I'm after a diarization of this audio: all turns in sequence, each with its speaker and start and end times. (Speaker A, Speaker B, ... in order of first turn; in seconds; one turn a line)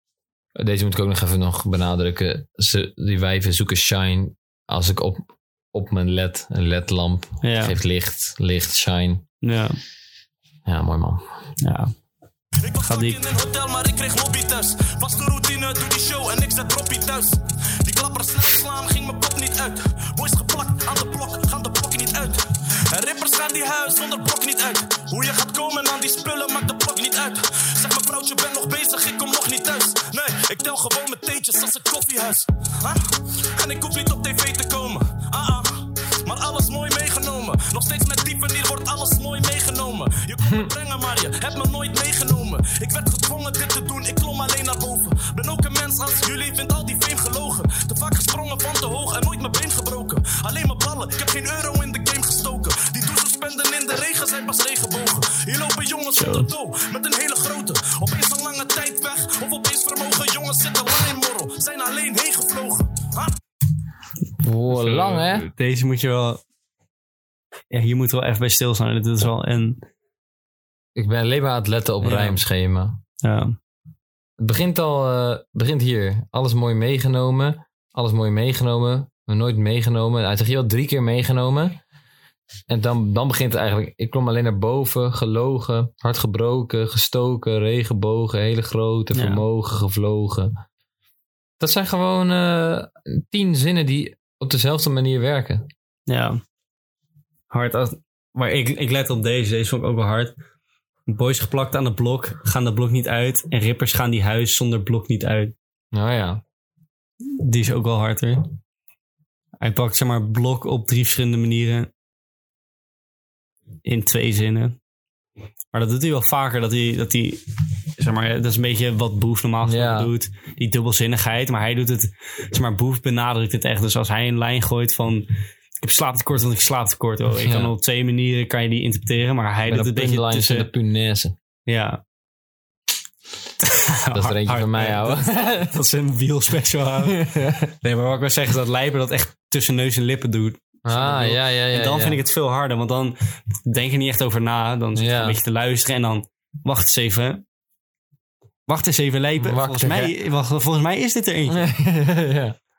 Speaker A: 0.6-9.2
Speaker B: 7.4-7.8
Speaker B: 9.4-9.8
Speaker A: 10.7-11.4
Speaker B: 11.6-11.9
Speaker C: 12.6-63.3
Speaker B: 12.8-13.2
Speaker A: 40.4-40.7
Speaker B: 56.2-56.5
Speaker A: 64.4-65.5
Speaker B: 64.7-66.4
Speaker B: 67.7-69.8
Speaker A: 71.0-73.0
Speaker B: 72.0-72.4
Speaker B: 73.2-73.6
Speaker A: 74.4-81.8
Speaker A: 82.7-90.5
Speaker B: 89.1-89.4
Speaker A: 91.6-95.7
Speaker B: 96.1-96.4
Speaker B: 97.5-100.3
Speaker B: 101.1-105.5
Speaker A: 105.9-106.4
Speaker B: 107.4-108.5
Speaker B: 109.6-111.9
Speaker B: 113.8-114.8
Speaker B: 115.7-117.4
Speaker B: 118.0-125.3
Speaker A: 119.6-120.1
Speaker B: 125.8-130.7
Speaker A: 127.4-127.7
Speaker A: 129.7-131.3
Speaker B: 131.7-132.0
Speaker B: 133.6-137.2
Speaker A: 134.1-135.7
Speaker A: 137.1-137.7
Speaker B: 137.8-147.4
Speaker A: 140.8-142.2
Speaker A: 145.0-145.4
Speaker B: 148.7-151.7
Speaker A: 149.4-150.1
Speaker A: 151.5-152.6